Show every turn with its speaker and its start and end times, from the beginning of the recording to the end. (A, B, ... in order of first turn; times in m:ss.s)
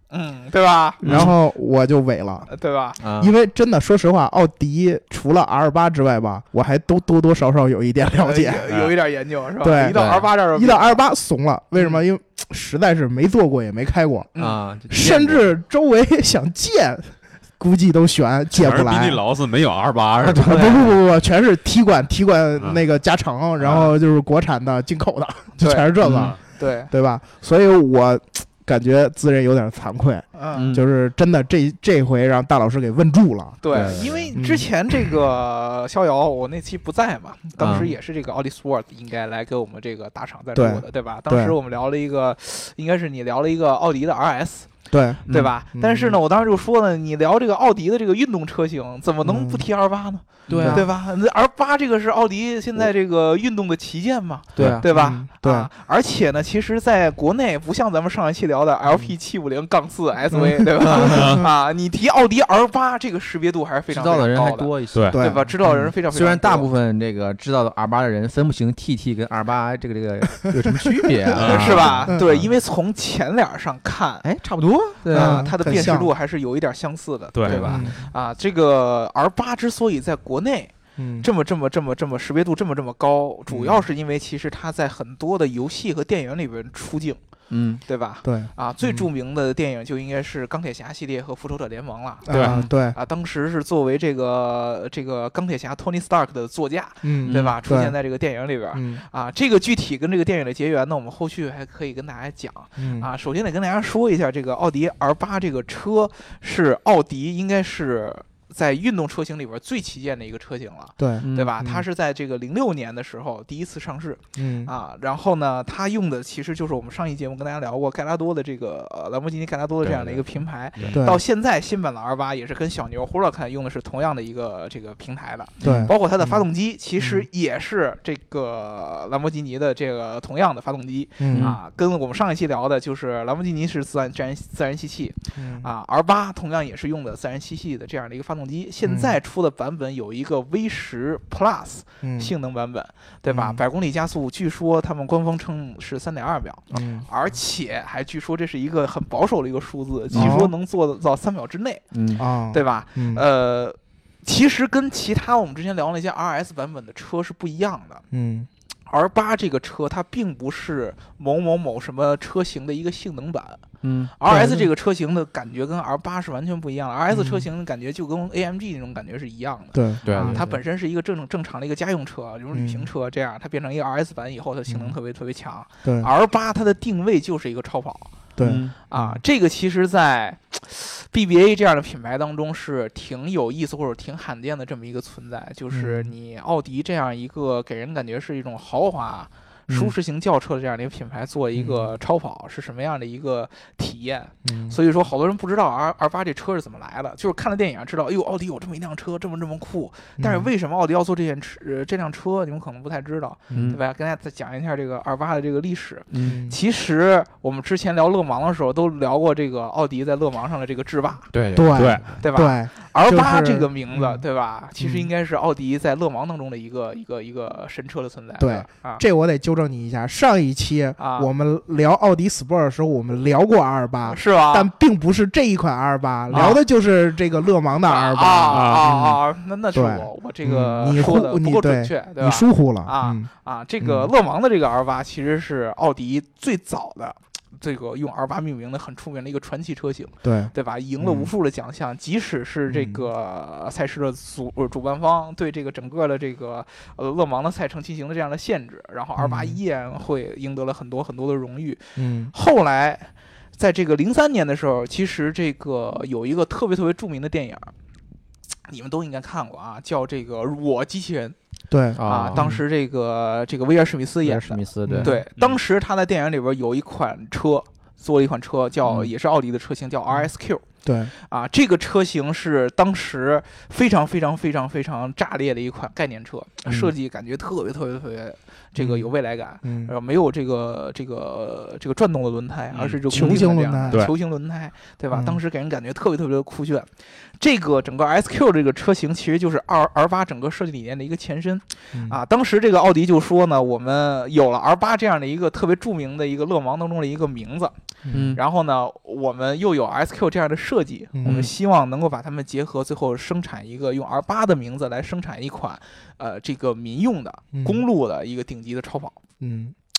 0:00.1-0:01.0 A
0:01.0-0:02.5 B
0:01.0-0:01.3 C
0:02.5-0:03.0 A
0:03.0-0:03.3 C
0:03.2-0:08.7 B
0:08.1-0:11.0 A
0:08.7-0:08.9 D
0:09.6-0:14.3 B
0:09.9-0:10.3 C
0:11.8-0:12.0 A
0:14.4-0:14.6 A
0:14.4-0:15.5 C
0:14.9-0:19.2 B
0:18.5-0:20.7 D
0:20.2-0:21.0 C
0:20.4-0:33.7 B
0:23.6-0:23.9 A
0:25.6-0:26.9 A
0:26.0-0:26.3 C
0:26.1-0:26.4 D
0:30.3-0:30.7 A
0:30.5-0:30.8 C
0:33.6-1:06.7 A
0:33.7-0:34.3 C
0:34.3-0:34.7 B
0:37.6-0:37.9 C
0:40.6-0:41.6 B
0:44.9-0:46.2 B
0:45.3-0:45.5 C
0:49.2-0:49.6 B
0:50.5-0:50.9 C
0:50.5-0:50.9 B
0:54.6-0:54.9 C
0:54.6-0:55.7 B
1:00.3-1:01.4 B
1:00.8-1:01.3 C
1:01.0-1:01.4 D
1:03.9-1:12.4 C
1:04.9-1:05.2 D
1:05.1-1:05.5 B
1:11.3-1:12.0 D
1:11.4-1:14.3 A
1:14.2-1:16.0 C
1:15.1-1:27.2 A
1:15.1-1:16.1 B
1:17.4-1:17.8 D
1:17.5-1:17.9 C
1:17.6-1:18.1 B
1:21.0-1:21.3 B
1:27.5-1:27.8 C
1:27.9-2:31.9 A
1:28.2-1:29.1 B
1:32.3-1:33.0 B
1:32.3-1:32.6 D
1:37.0-1:38.0 B
1:37.2-1:37.6 C
1:38.7-1:39.0 B
1:42.8-1:43.1 B
1:51.0-1:51.8 B
1:51.2-1:51.5 C
1:54.4-1:54.7 B
1:59.8-2:00.3 C
2:00.9-2:01.2 B
2:05.6-2:06.4 B
2:05.6-2:05.9 C
2:07.0-2:07.3 B
2:11.2-2:11.6 B
2:11.3-2:11.6 C
2:15.4-2:15.7 B
2:18.8-2:19.2 B
2:22.0-2:22.3 B
2:23.3-2:23.6 B
2:26.7-2:27.1 B
2:30.1-2:30.4 C
2:30.1-2:30.5 B
2:31.9-2:32.3 C
2:32.2-2:33.2 B
2:32.5-2:38.0 A
2:38.1-2:38.5 B
2:38.9-2:43.6 A
2:43.8-2:44.1 C
2:44.2-2:58.2 A
2:44.3-2:44.7 B
2:47.1-2:47.5 B
2:49.7-2:50.4 B
2:50.0-2:50.6 C
2:52.5-2:52.9 B
2:54.7-2:55.0 B
2:55.8-2:56.1 B
2:58.4-2:59.2 B
2:58.4-2:58.7 C
2:58.9-3:31.3 A
3:05.7-3:06.1 B
3:11.6-3:11.9 B
3:14.4-3:14.8 B
3:20.2-3:20.5 B
3:23.5-3:23.8 B
3:23.5-3:23.8 C
3:26.1-3:26.4 C
3:26.2-3:26.6 B
3:31.3-3:32.2 C
3:31.5-3:34.2 B
3:31.8-3:32.1 D
3:32.2-3:39.0 A
3:34.8-3:35.1 B
3:38.4-3:49.2 B
3:41.0-3:41.3 A
3:44.1-3:44.7 A
3:46.3-3:46.6 A
3:47.9-4:17.7 A
3:48.5-3:48.9 D
3:49.7-3:53.3 B
3:53.8-3:54.1 B
4:00.2-4:01.3 B
4:02.7-4:03.0 B
4:09.2-4:09.6 B
4:12.0-4:12.3 B
4:18.7-4:21.4 A
4:21.7-4:22.6 B
4:22.0-4:22.6 C
4:22.0-4:57.7 A
4:24.2-4:25.2 C
4:24.8-4:25.2 B
4:28.9-4:29.1 C
4:30.8-4:31.1 B
4:36.7-4:36.9 C
4:38.8-4:39.1 B
4:39.6-4:39.9 B
4:42.7-4:43.4 D
4:43.1-4:44.0 B
4:45.1-4:45.4 B
4:51.9-4:52.2 B
4:58.0-4:58.4 B
4:58.1-4:58.4 C
4:58.3-5:09.2 A
5:01.2-5:01.5 B
5:07.5-5:07.8 B
5:09.4-5:09.8 B